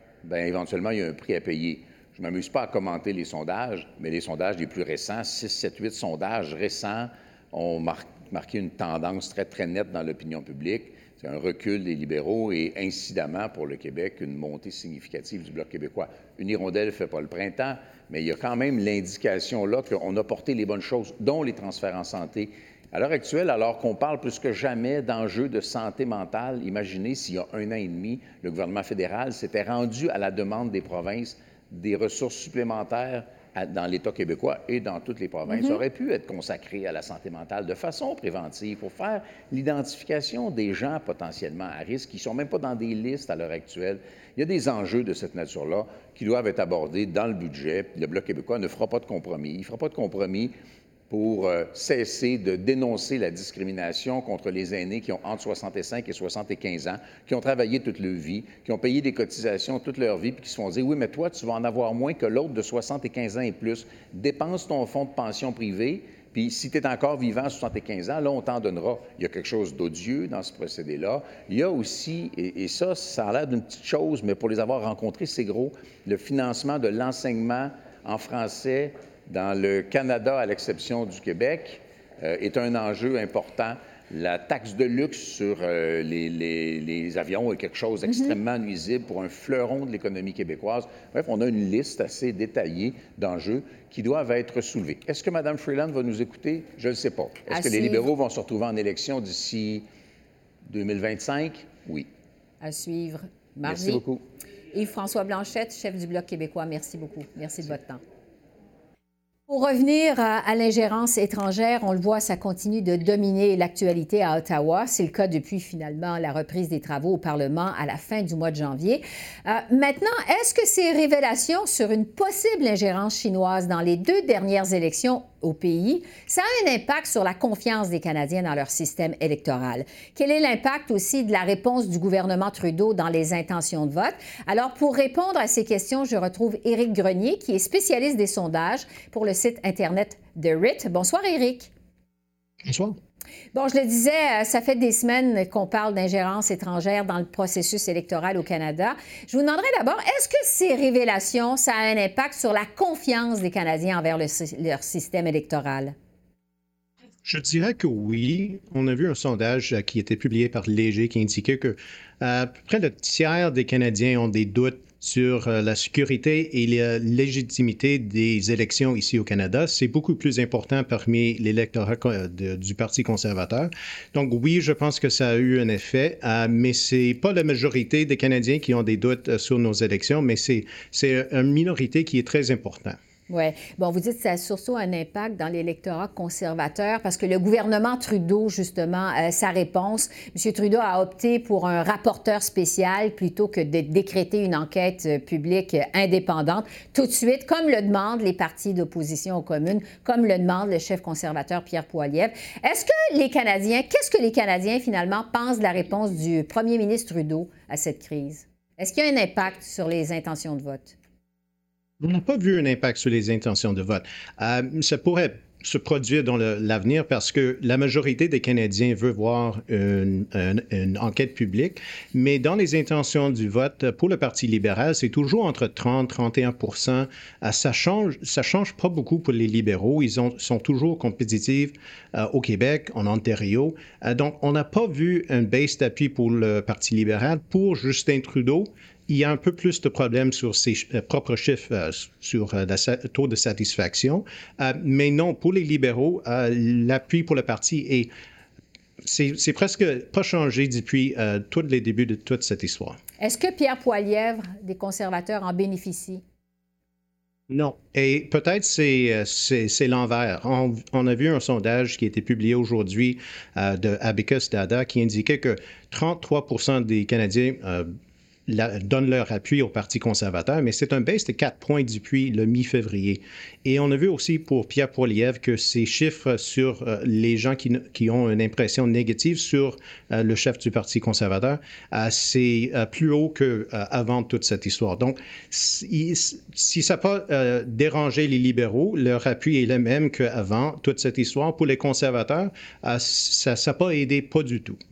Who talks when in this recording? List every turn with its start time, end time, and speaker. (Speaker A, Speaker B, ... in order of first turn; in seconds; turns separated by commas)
Speaker A: 0.2-50.5, Speaker B: 35.5-35.8, Speaker A: 51.1-99.8, Speaker B: 88.0-88.3, Speaker B: 97.5-98.1, Speaker A: 100.7-102.1, Speaker B: 102.6-104.0, Speaker A: 103.6-104.2, Speaker B: 104.7-108.0, Speaker B: 109.5-141.7, Speaker C: 142.6-143.0, Speaker B: 143.5-155.9, Speaker C: 157.2-183.0, Speaker B: 183.3-211.0, Speaker C: 212.0-248.1, Speaker C: 249.0-253.0, Speaker B: 253.2-256.2, Speaker C: 257.5-267.9, Speaker C: 268.5-294.8